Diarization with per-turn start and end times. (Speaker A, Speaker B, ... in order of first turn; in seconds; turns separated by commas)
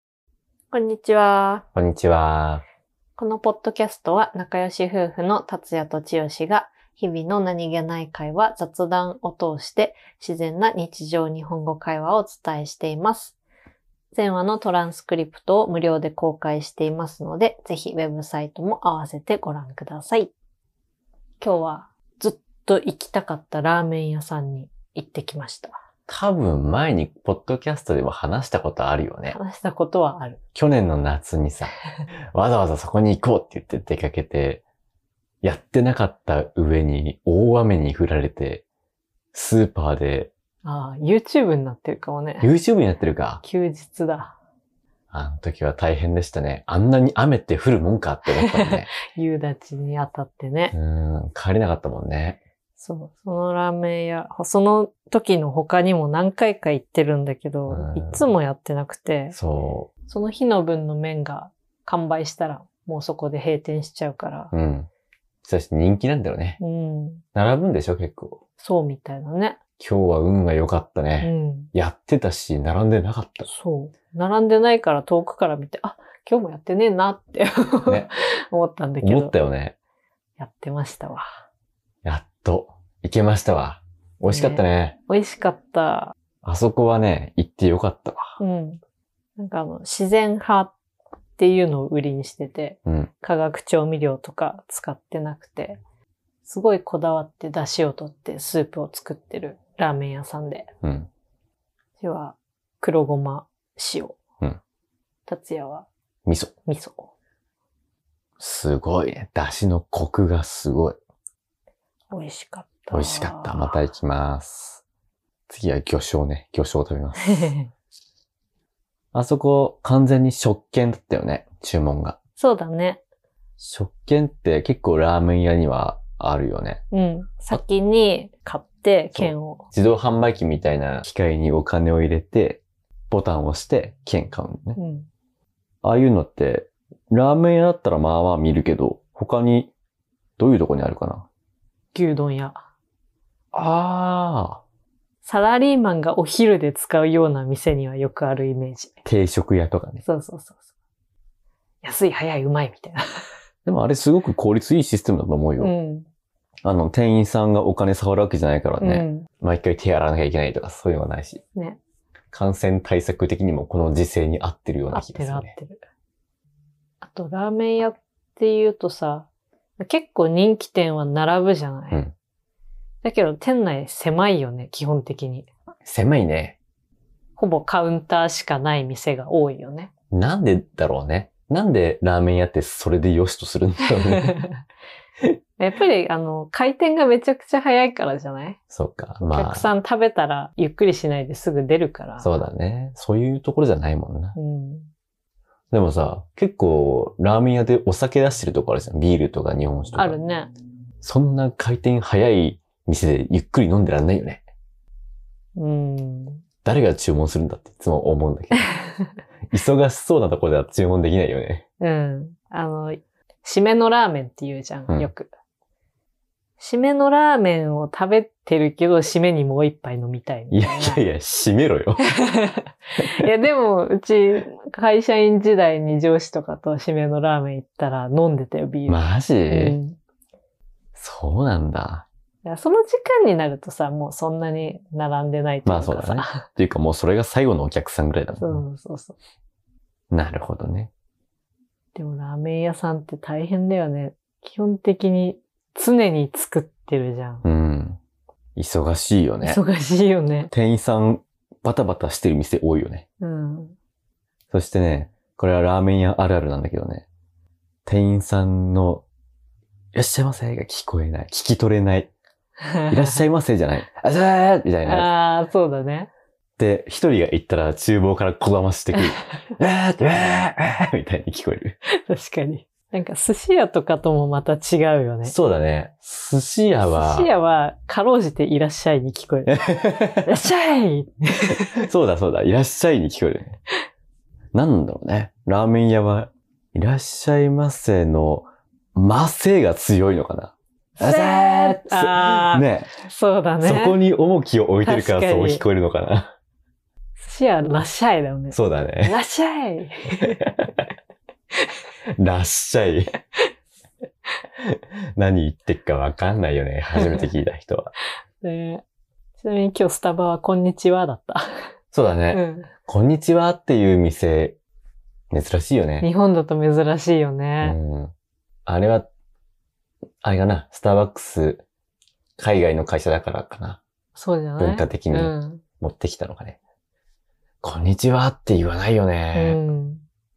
Speaker A: 0.7-1.6, Speaker B: 1.8-2.6, Speaker A: 3.2-13.4, Speaker A: 14.1-20.3, Speaker A: 21.4-25.8, Speaker B: 26.1-29.4, Speaker A: 29.3-30.4, Speaker B: 30.6-31.7, Speaker B: 32.3-34.6, Speaker B: 35.4-38.6, Speaker B: 39.3-40.3, Speaker A: 40.6-42.5, Speaker B: 42.4-43.4, Speaker A: 43.4-44.3, Speaker B: 45.1-48.9, Speaker A: 48.3-50.8, Speaker B: 50.7-52.4, Speaker A: 52.8-59.4, Speaker B: 57.7-58.3, Speaker B: 59.3-59.9, Speaker A: 60.1-64.5, Speaker B: 64.5-64.9, Speaker B: 65.4-66.6, Speaker A: 66.6-67.2, Speaker B: 67.3-68.4, Speaker A: 68.6-69.6, Speaker B: 69.8-73.5, Speaker A: 71.2-71.7, Speaker A: 73.5-79.3, Speaker B: 79.0-79.8, Speaker A: 80.4-81.3, Speaker B: 82.0-85.0, Speaker A: 84.3-86.1, Speaker B: 86.4-88.4, Speaker A: 88.4-88.8, Speaker A: 89.4-90.7, Speaker A: 91.4-95.8, Speaker B: 92.9-93.1, Speaker A: 96.4-100.7, Speaker B: 100.8-101.1, Speaker A: 102.0-104.2, Speaker A: 105.3-105.9, Speaker B: 106.3-106.5, Speaker A: 106.7-107.1, Speaker B: 108.4-111.0, Speaker A: 112.1-113.8, Speaker B: 112.9-114.8, Speaker B: 115.5-117.5, Speaker A: 117.3-117.7, Speaker B: 119.1-122.2, Speaker A: 122.4-123.0, Speaker B: 123.6-126.8, Speaker A: 126.9-129.7, Speaker B: 129.1-134.8, Speaker A: 134.8-135.1, Speaker B: 135.8-139.7, Speaker B: 140.4-141.3, Speaker A: 141.9-142.6, Speaker B: 143.5-144.6, Speaker A: 145.2-149.0, Speaker B: 149.1-150.0, Speaker A: 150.0-150.6, Speaker A: 151.8-153.3, Speaker B: 153.7-155.7, Speaker A: 155.6-156.1, Speaker B: 156.7-161.4, Speaker A: 158.8-159.3, Speaker B: 162.3-165.6, Speaker A: 164.9-165.8, Speaker A: 167.0-169.3, Speaker A: 169.8-172.0, Speaker A: 173.0-175.5, Speaker B: 175.8-176.6, Speaker A: 177.4-179.9, Speaker B: 180.1-184.4, Speaker A: 184.1-184.5, Speaker A: 185.6-188.6, Speaker B: 188.7-189.7, Speaker A: 189.3-192.4, Speaker B: 192.2-194.4, Speaker A: 194.3-194.9, Speaker B: 195.7-200.2, Speaker A: 199.9-200.5, Speaker B: 201.0-204.4, Speaker A: 205.6-206.4, Speaker B: 206.6-208.6, Speaker B: 209.5-211.6, Speaker A: 211.8-215.3, Speaker A: 216.6-221.0, Speaker B: 220.5-222.1, Speaker A: 222.1-230.0, Speaker B: 228.9-229.8, Speaker B: 230.9-232.1, Speaker A: 232.4-236.4, Speaker B: 235.7-238.6, Speaker A: 238.3-239.2, Speaker B: 240.1-240.9, Speaker A: 241.9-247.4, Speaker B: 247.4-248.0, Speaker B: 248.6-249.6, Speaker A: 249.4-250.5, Speaker B: 250.5-253.1, Speaker A: 253.2-253.8, Speaker B: 254.5-257.1, Speaker B: 257.9-259.1, Speaker B: 259.9-262.1, Speaker A: 262.6-263.2, Speaker B: 262.9-265.1, Speaker A: 264.9-266.1, Speaker B: 266.6-271.8, Speaker A: 272.1-275.4, Speaker B: 275.2-277.3, Speaker A: 276.8-281.8, Speaker B: 279.5-280.3, Speaker B: 281.8-283.6, Speaker B: 284.5-293.1, Speaker A: 291.0-294.0, Speaker B: 293.6-296.3, Speaker A: 294.8-295.6, Speaker A: 297.2-300.5, Speaker B: 298.5-299.1, Speaker B: 302.2-303.1, Speaker B: 304.7-307.9, Speaker A: 307.0-307.3, Speaker A: 308.4-308.8, Speaker A: 309.4-311.7, Speaker B: 311.9-314.6, Speaker A: 312.3-312.7, Speaker B: 315.3-316.1, Speaker A: 316.0-317.8, Speaker B: 317.6-318.1, Speaker B: 318.7-319.1, Speaker B: 320.2-321.6, Speaker B: 322.4-323.8, Speaker A: 324.1-325.6, Speaker B: 324.6-326.6, Speaker B: 327.6-329.6, Speaker A: 329.3-330.0